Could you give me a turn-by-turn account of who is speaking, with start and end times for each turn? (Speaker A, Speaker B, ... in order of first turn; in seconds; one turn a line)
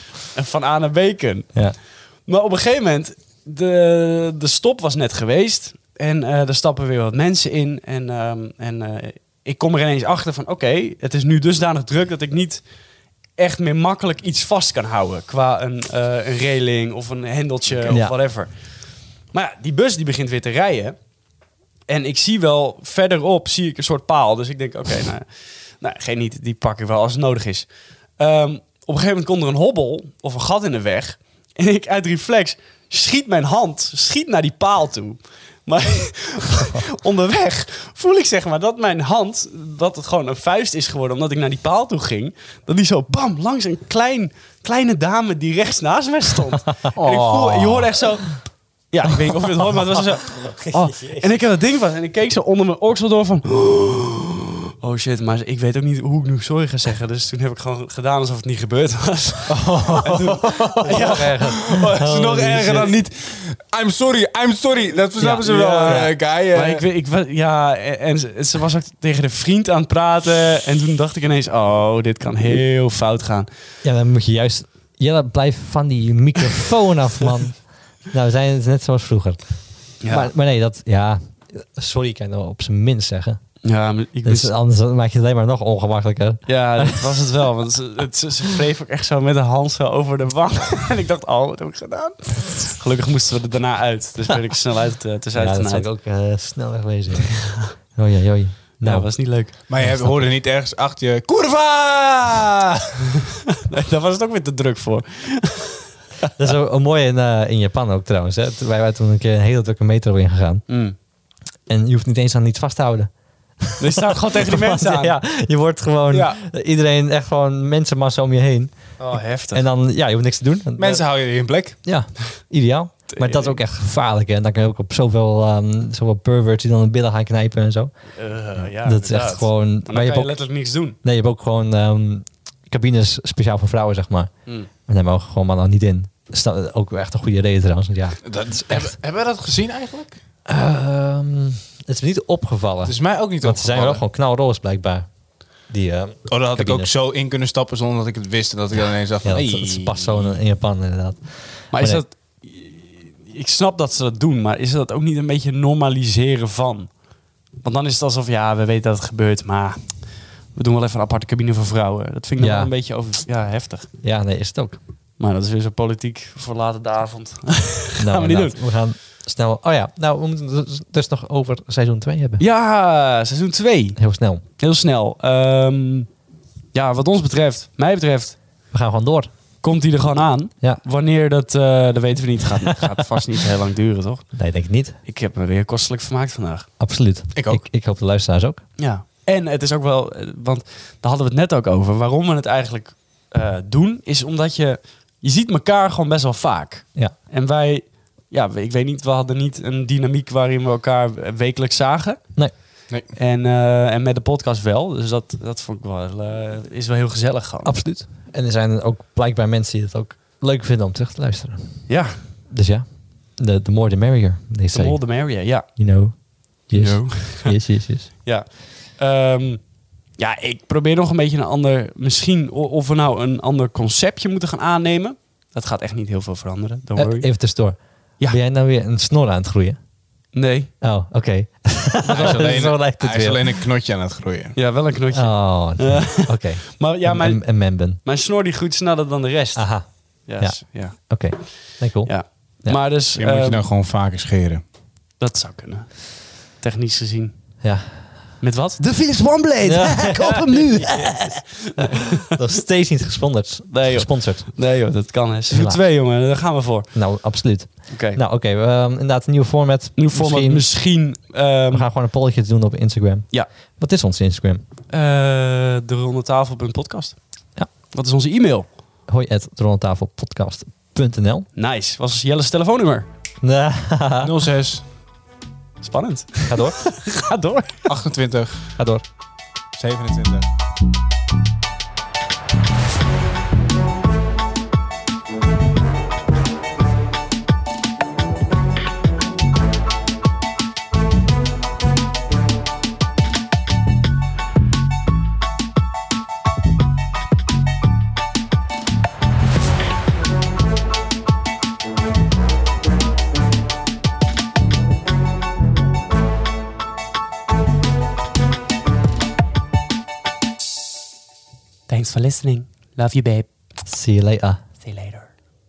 Speaker A: 0.3-1.5
Speaker A: 2.2-12.6
Speaker A: 13.4-18.5
Speaker B: 17.9-18.1
Speaker A: 19.3-20.9
Speaker A: 21.9-25.3
Speaker A: 25.8-61.6
Speaker C: 47.0-47.9
Speaker B: 50.5-51.3
Speaker C: 59.5-66.8
Speaker B: 60.8-62.9
Speaker A: 62.6-62.9
Speaker B: 65.2-66.1
Speaker A: 65.3-73.5
Speaker B: 73.8-83.4
Speaker A: 80.0-80.3
Speaker A: 83.6-84.5
Speaker B: 84.2-87.1
Speaker A: 86.5-95.9
Speaker B: 95.3-100.2
Speaker A: 98.8-99.5
Speaker C: 99.7-103.2
Speaker A: 103.5-105.8
Speaker B: 106.4-110.6
Speaker A: 110.7-110.9
Speaker B: 111.7-119.0
Speaker A: 113.8-115.1
Speaker C: 116.1-116.4
Speaker A: 119.0-119.6
Speaker B: 119.5-121.0
Speaker C: 120.8-121.8
Speaker B: 121.8-127.9
Speaker A: 123.1-123.6
Speaker A: 128.1-131.0
Speaker B: 128.6-130.3
Speaker B: 131.0-134.3
Speaker B: 134.8-138.9
Speaker C: 138.2-140.1
Speaker B: 140.4-145.1
Speaker C: 142.8-144.0
Speaker B: 145.7-146.9
Speaker C: 146.3-150.4
Speaker B: 149.2-152.0
Speaker A: 151.7-156.9
Speaker A: 157.6-163.9
Speaker B: 162.4-162.7
Speaker B: 164.0-164.8
Speaker A: 165.2-168.6
Speaker B: 168.0-172.4
Speaker A: 172.4-174.0
Speaker B: 174.0-174.4
Speaker A: 174.6-176.1
Speaker A: 176.7-178.4
Speaker B: 178.7-179.3
Speaker A: 179.6-184.3
Speaker B: 184.3-185.0
Speaker A: 185.0-186.7
Speaker B: 186.8-188.6
Speaker C: 187.3-187.6
Speaker A: 188.8-202.3
Speaker A: 203.1-207.8
Speaker B: 207.6-211.8
Speaker A: 211.9-212.2
Speaker B: 212.5-215.0
Speaker A: 214.7-215.7
Speaker B: 215.6-218.1
Speaker A: 216.7-217.6
Speaker A: 218.2-219.6
Speaker A: 220.2-227.3
Speaker B: 226.9-229.8
Speaker A: 230.3-230.7
Speaker B: 230.8-233.5
Speaker C: 232.0-234.6
Speaker A: 232.1-232.4
Speaker A: 234.5-241.5
Speaker B: 235.1-238.0
Speaker B: 239.5-242.8
Speaker A: 242.0-243.6
Speaker C: 243.2-244.6
Speaker A: 245.2-247.3
Speaker B: 247.6-248.1
Speaker A: 248.4-252.3
Speaker B: 249.6-254.6
Speaker A: 253.7-256.9
Speaker B: 255.5-255.8
Speaker B: 256.9-260.7
Speaker A: 257.9-258.2
Speaker A: 260.0-261.9
Speaker B: 261.7-264.6
Speaker A: 264.9-267.2
Speaker A: 267.9-268.7
Speaker B: 269.1-271.5
Speaker A: 271.5-273.1
Speaker B: 273.4-274.3
Speaker C: 274.2-274.8
Speaker A: 275.8-277.9
Speaker B: 276.5-276.8
Speaker C: 277.9-278.7
Speaker B: 278.8-279.0
Speaker C: 279.8-280.4
Speaker A: 311.9-313.4
Speaker B: 313.8-314.6
Speaker A: 314.8-315.3